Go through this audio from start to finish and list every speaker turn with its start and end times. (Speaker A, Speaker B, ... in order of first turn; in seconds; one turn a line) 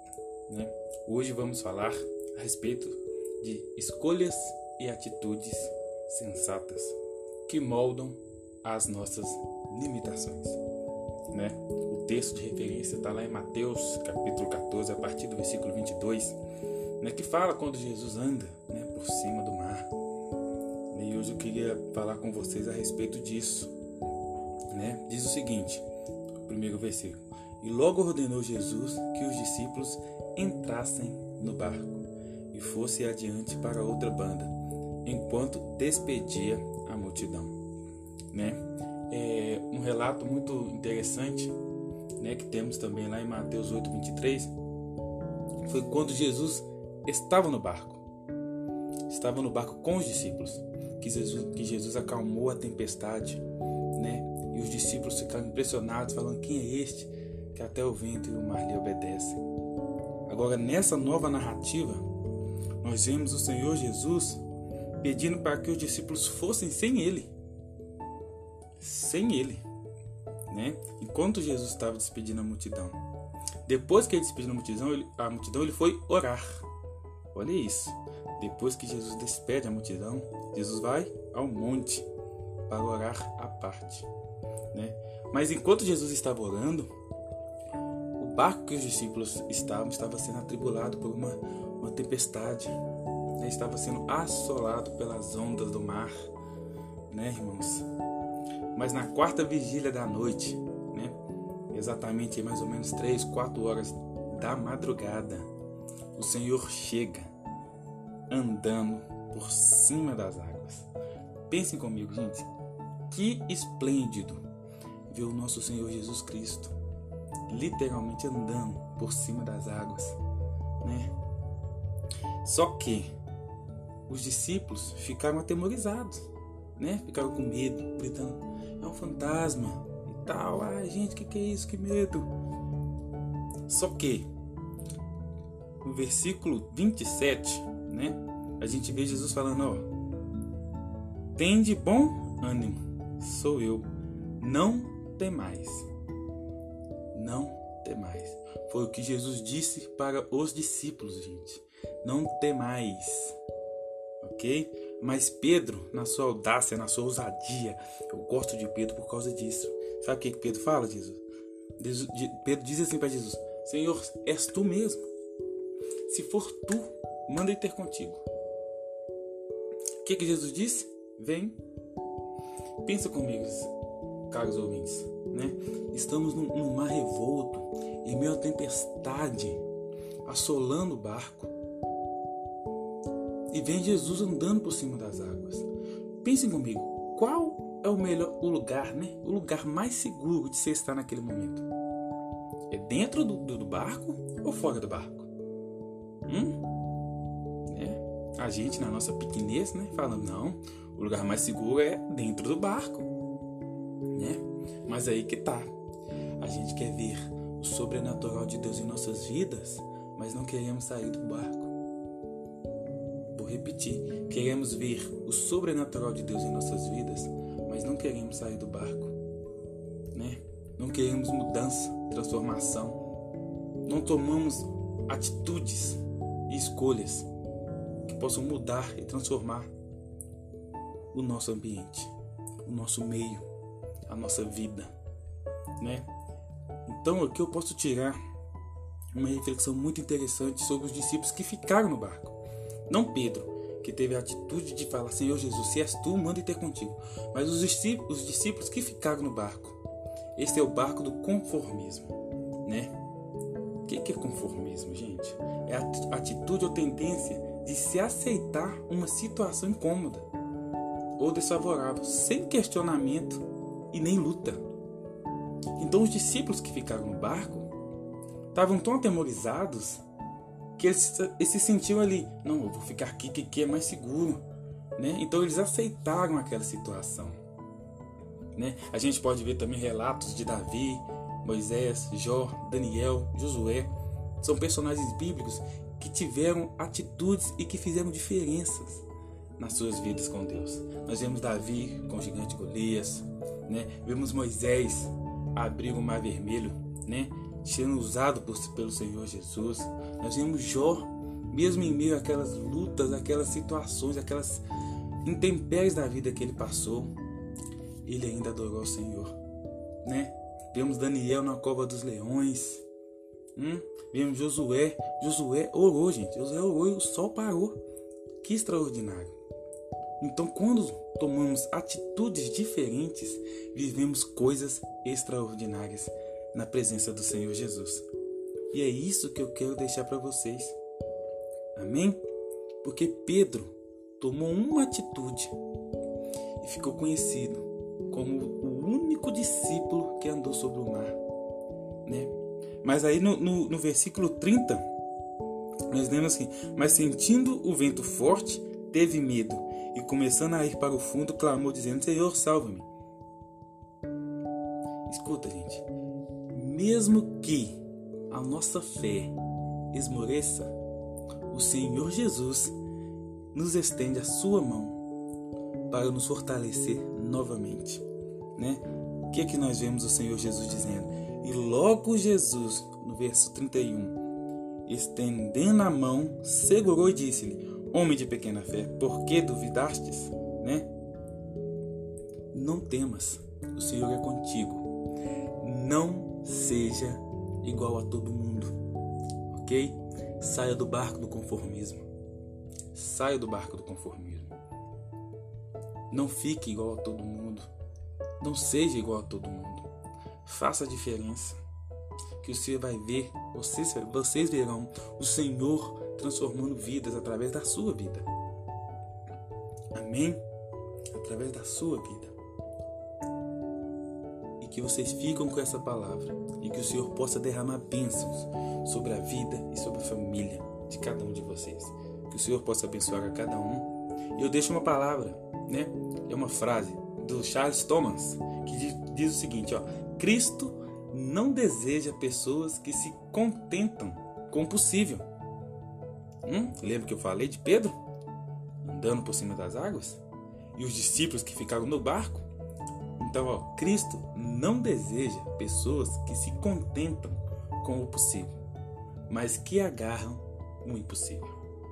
Speaker A: 0.5-10.6
Speaker A: 11.3-16.4
Speaker A: 17.0-19.9
Speaker A: 20.9-23.7
Speaker A: 24.7-25.8
Speaker A: 26.4-34.5
Speaker A: 35.0-37.6
Speaker A: 38.3-41.5
Speaker A: 42.2-44.5
Speaker A: 45.6-48.0
Speaker A: 49.1-59.4
Speaker A: 60.3-62.0
Speaker A: 62.8-64.4
Speaker A: 65.0-67.3
Speaker A: 68.8-69.6
Speaker A: 70.5-73.0
Speaker A: 73.6-76.7
Speaker A: 77.3-82.1
Speaker A: 82.7-84.1
Speaker A: 84.7-86.9
Speaker A: 88.2-92.8
Speaker A: 93.4-96.3
Speaker A: 97.1-97.8
Speaker A: 98.7-101.2
Speaker A: 101.7-105.5
Speaker A: 106.1-107.3
Speaker A: 108.3-110.9
Speaker A: 111.5-112.5
Speaker A: 113.1-114.4
Speaker A: 115.1-116.7
Speaker A: 117.5-120.2
Speaker A: 120.8-121.1
Speaker A: 122.4-123.1
Speaker A: 124.1-132.3
Speaker A: 133.7-134.3
Speaker A: 135.8-139.9
Speaker A: 141.3-143.9
Speaker A: 144.4-145.9
Speaker A: 147.1-153.4
Speaker A: 154.2-161.2
Speaker A: 161.8-165.0
Speaker A: 166.1-168.2
Speaker A: 170.0-171.6
Speaker A: 172.8-173.7
Speaker A: 174.3-179.6
Speaker A: 180.2-181.5
Speaker A: 183.5-185.7
Speaker A: 186.2-191.7
Speaker A: 192.7-195.3
Speaker A: 196.3-196.6
Speaker A: 197.7-203.1
Speaker A: 204.1-205.7
Speaker A: 206.4-211.7
Speaker A: 213.3-219.1
Speaker A: 220.1-223.0
Speaker A: 223.8-227.3
Speaker A: 228.0-229.7
Speaker A: 231.1-232.1
Speaker A: 232.6-233.5
Speaker A: 234.1-234.9
Speaker A: 235.8-236.1
Speaker A: 236.8-238.2
Speaker A: 239.1-249.8
Speaker A: 250.3-252.9
Speaker A: 253.8-260.3
Speaker A: 261.2-264.6
Speaker A: 265.8-267.7
Speaker A: 268.5-270.0
Speaker A: 270.8-274.4
Speaker A: 275.0-277.4
Speaker A: 278.6-289.1
Speaker A: 289.6-304.6
Speaker A: 305.2-307.2
Speaker A: 308.1-309.4
Speaker A: 310.0-312.9
Speaker A: 313.6-317.8
Speaker A: 318.4-319.4
Speaker A: 320.2-328.1
Speaker A: 328.7-330.8
Speaker A: 331.8-332.2
Speaker A: 332.8-335.6
Speaker A: 336.6-341.2
Speaker A: 342.1-344.9
Speaker A: 345.9-352.9
Speaker A: 355.1-355.9
Speaker A: 356.5-359.4
Speaker A: 359.9-360.7
Speaker A: 361.5-362.8
Speaker A: 363.5-365.0
Speaker A: 365.9-368.0
Speaker A: 368.6-374.2
Speaker A: 374.9-380.9
Speaker A: 382.5-384.9
Speaker A: 385.6-388.8
Speaker A: 389.5-392.1
Speaker A: 392.9-394.5
Speaker A: 396.1-397.7
Speaker A: 398.4-399.9
Speaker A: 400.4-401.6
Speaker A: 402.4-408.3
Speaker A: 409.9-410.4
Speaker A: 411.1-412.4
Speaker A: 414.6-435.2
Speaker A: 436.4-438.0
Speaker A: 438.8-440.2
Speaker A: 440.8-442.5
Speaker A: 443.2-448.5
Speaker A: 449.3-451.6